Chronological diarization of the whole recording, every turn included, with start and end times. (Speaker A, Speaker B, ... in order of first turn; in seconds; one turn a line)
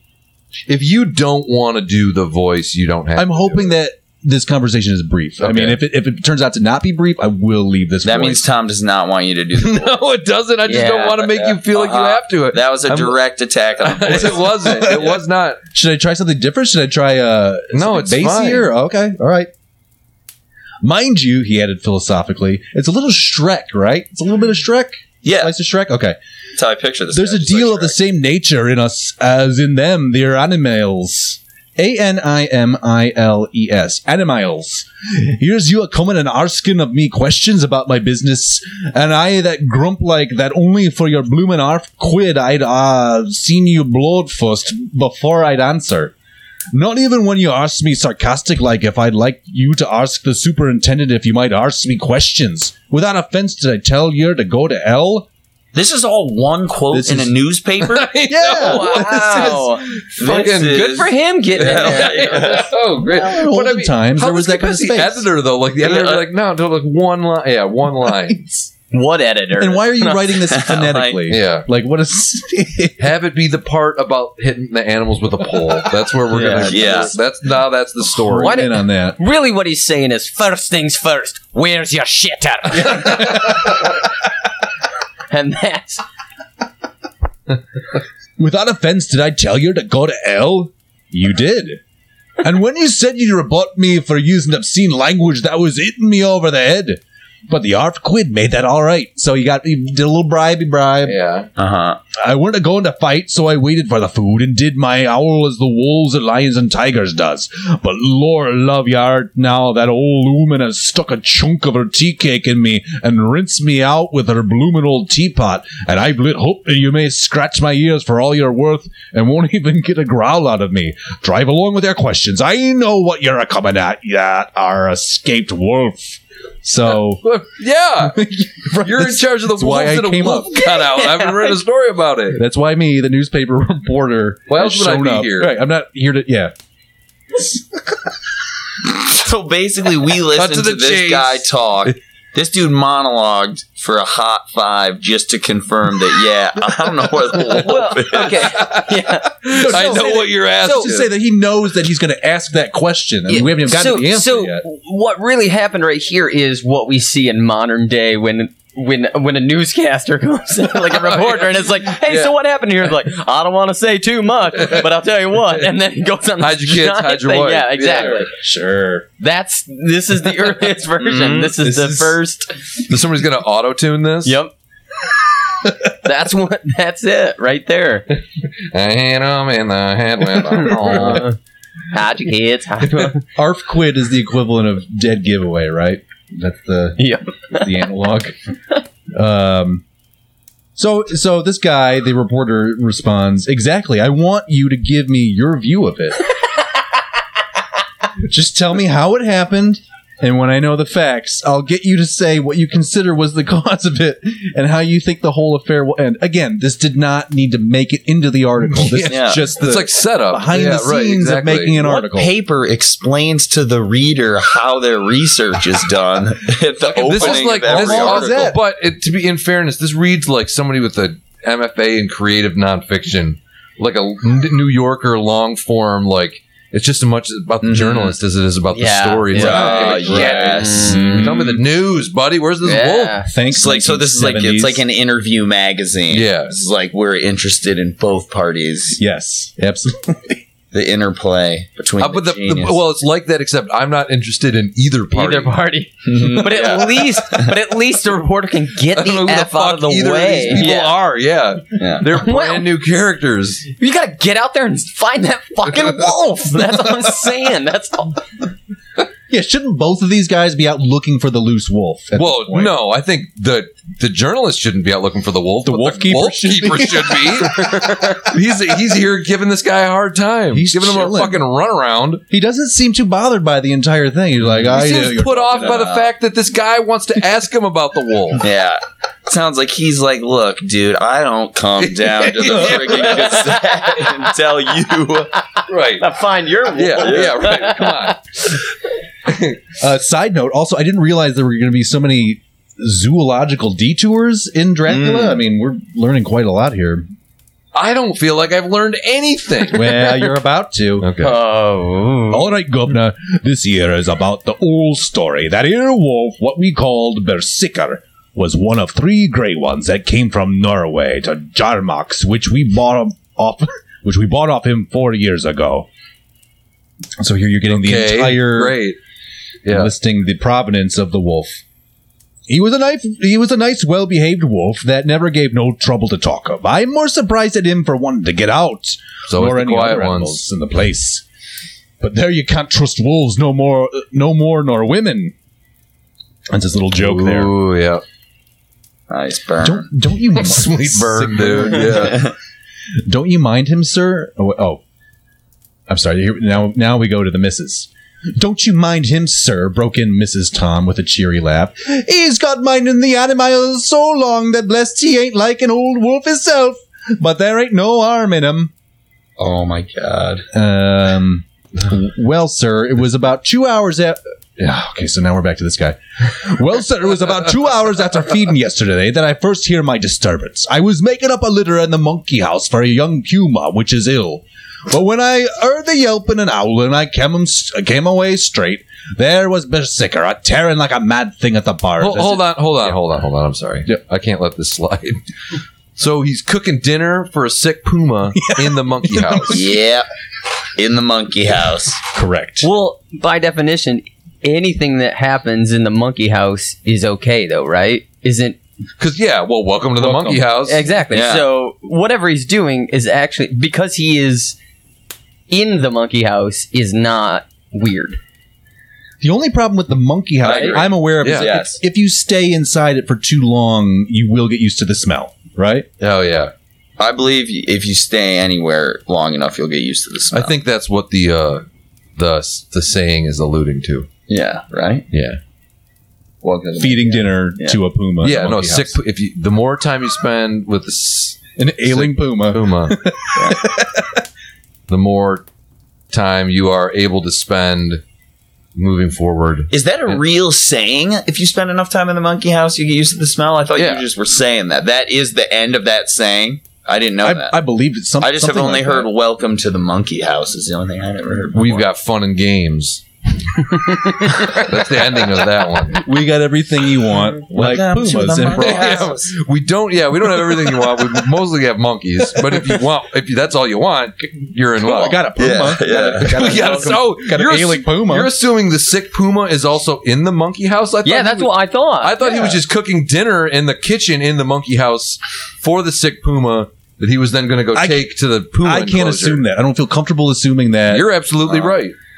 Speaker A: 0.7-3.6
Speaker B: 3.1-8.4
Speaker A: 5.4-5.8
Speaker C: 8.0-10.0
Speaker A: 9.6-13.2
Speaker D: 10.7-11.2
Speaker C: 11.1-15.1
Speaker A: 13.8-15.6
Speaker B: 15.7-19.5
Speaker A: 17.7-18.7
Speaker B: 20.8-26.2
Speaker C: 25.2-25.5
Speaker C: 26.6-28.0
Speaker B: 27.1-46.1
Speaker B: 46.7-55.3
Speaker C: 55.7-58.1
Speaker B: 56.9-57.3
Speaker A: 57.8-68.4
Speaker B: 58.3-59.5
Speaker D: 58.6-60.0
Speaker C: 60.2-62.7
Speaker D: 60.6-62.5
Speaker B: 63.0-65.3
Speaker C: 65.8-66.2
Speaker B: 68.2-68.7
Speaker D: 68.9-70.3
Speaker B: 69.6-73.1
Speaker C: 70.4-71.2
Speaker A: 71.3-71.7
Speaker A: 73.0-78.6
Speaker D: 76.3-76.9
Speaker C: 76.7-77.1
Speaker B: 78.2-79.2
Speaker D: 78.3-83.6
Speaker B: 82.8-83.5
Speaker D: 85.3-86.0
Speaker B: 88.4-91.8
Speaker B: 92.4-101.2
Speaker A: 101.0-101.5
Speaker C: 101.5-102.0
Speaker B: 102.1-127.2
Speaker A: 127.2-128.2
Speaker B: 128.0-130.6
Speaker A: 128.7-132.4
Speaker D: 130.5-131.6
Speaker B: 132.3-136.5
Speaker A: 134.5-135.5
Speaker C: 138.8-148.5
Speaker A: 140.3-141.9
Speaker A: 147.4-151.1
Speaker D: 147.5-150.0
Speaker B: 149.5-154.6
Speaker D: 150.6-150.9
Speaker D: 153.3-168.3
Speaker A: 160.9-162.3
Speaker A: 166.4-168.3
Speaker B: 168.1-169.1
Speaker D: 169.2-172.5
Speaker C: 171.0-171.6
Speaker B: 171.6-172.2
Speaker A: 172.8-174.3
Speaker D: 174.2-174.5
Speaker D: 175.9-178.1
Speaker A: 178.7-181.3
Speaker D: 180.6-181.3
Speaker D: 181.9-183.2
Speaker B: 183.3-188.3
Speaker D: 187.0-187.7
Speaker B: 189.1-189.8
Speaker B: 190.8-196.2
Speaker B: 198.2-212.3
Speaker A: 208.7-211.8
Speaker C: 209.0-209.4
Speaker C: 211.8-218.5
Speaker A: 216.9-233.2
Speaker B: 217.0-218.6
Speaker C: 227.6-228.2
Speaker D: 228.7-231.2
Speaker C: 229.3-231.6
Speaker B: 229.3-230.5
Speaker D: 232.6-233.3
Speaker B: 233.3-234.8
Speaker C: 233.5-239.0
Speaker A: 236.1-236.6
Speaker B: 239.0-240.4
Speaker C: 240.7-242.8
Speaker A: 242.0-245.6
Speaker D: 245.1-250.9
Speaker C: 246.0-247.5
Speaker A: 248.9-253.7
Speaker C: 251.8-252.1
Speaker D: 252.1-252.7
Speaker D: 253.8-258.3
Speaker B: 259.3-262.7
Speaker A: 262.1-272.2
Speaker B: 265.6-267.8
Speaker D: 267.7-268.2
Speaker B: 270.5-271.4
Speaker B: 272.3-275.9
Speaker A: 274.6-278.4
Speaker C: 275.5-276.1
Speaker C: 278.4-285.3
Speaker A: 281.8-283.6
Speaker A: 285.7-286.1
Speaker D: 286.0-288.1
Speaker A: 286.7-288.2
Speaker C: 287.0-287.5
Speaker A: 289.3-289.6
Speaker B: 289.8-297.1
Speaker C: 294.9-295.4
Speaker A: 297.7-300.2
Speaker B: 299.7-301.1
Speaker A: 301.0-301.4
Speaker D: 301.2-302.5
Speaker B: 302.3-315.9
Speaker B: 317.2-318.8
Speaker A: 317.7-319.0
Speaker A: 319.6-319.9
Speaker B: 319.7-321.6
Speaker B: 322.5-331.2
Speaker A: 329.3-330.4
Speaker B: 332.0-335.3
Speaker B: 336.5-337.5
Speaker A: 336.9-338.0
Speaker C: 339.1-339.9
Speaker B: 339.6-342.2
Speaker A: 340.3-342.3
Speaker C: 341.8-342.3
Speaker B: 343.1-344.8
Speaker B: 345.9-358.7
Speaker C: 359.4-360.4
Speaker B: 360.5-383.0
Speaker A: 382.0-385.2
Speaker A: 385.9-389.7
Speaker B: 388.4-389.7
Speaker C: 389.5-390.1
Speaker C: 390.8-392.0
Speaker B: 392.1-392.7
Speaker D: 392.6-398.6
Speaker A: 399.0-400.8
Speaker B: 400.0-400.4
Speaker D: 400.7-404.6
Speaker C: 401.1-401.4
Speaker D: 405.5-408.2
Speaker B: 409.2-415.9
Speaker C: 410.4-411.8
Speaker D: 410.5-410.8
Speaker A: 411.2-411.5
Speaker A: 416.0-416.5
Speaker C: 417.0-420.5
Speaker A: 420.3-421.6
Speaker A: 422.1-424.1
Speaker C: 424.3-425.1
Speaker A: 425.1-425.4
Speaker C: 426.4-427.8
Speaker B: 426.8-429.0
Speaker A: 428.2-433.0
Speaker B: 431.6-434.2
Speaker C: 433.4-433.6
Speaker A: 434.9-435.4
Speaker A: 436.1-438.0
Speaker A: 438.7-440.2
Speaker C: 439.7-447.6
Speaker A: 443.8-444.0
Speaker B: 447.2-449.1
Speaker C: 448.2-451.9
Speaker A: 451.5-453.0
Speaker A: 453.6-456.0
Speaker B: 455.9-459.1
Speaker C: 457.5-459.3
Speaker A: 458.3-465.2
Speaker C: 464.9-466.7
Speaker B: 464.9-468.3
Speaker A: 466.1-479.4
Speaker D: 471.0-472.2
Speaker B: 477.7-478.1
Speaker B: 478.6-481.1
Speaker A: 480.9-481.9
Speaker C: 481.5-481.7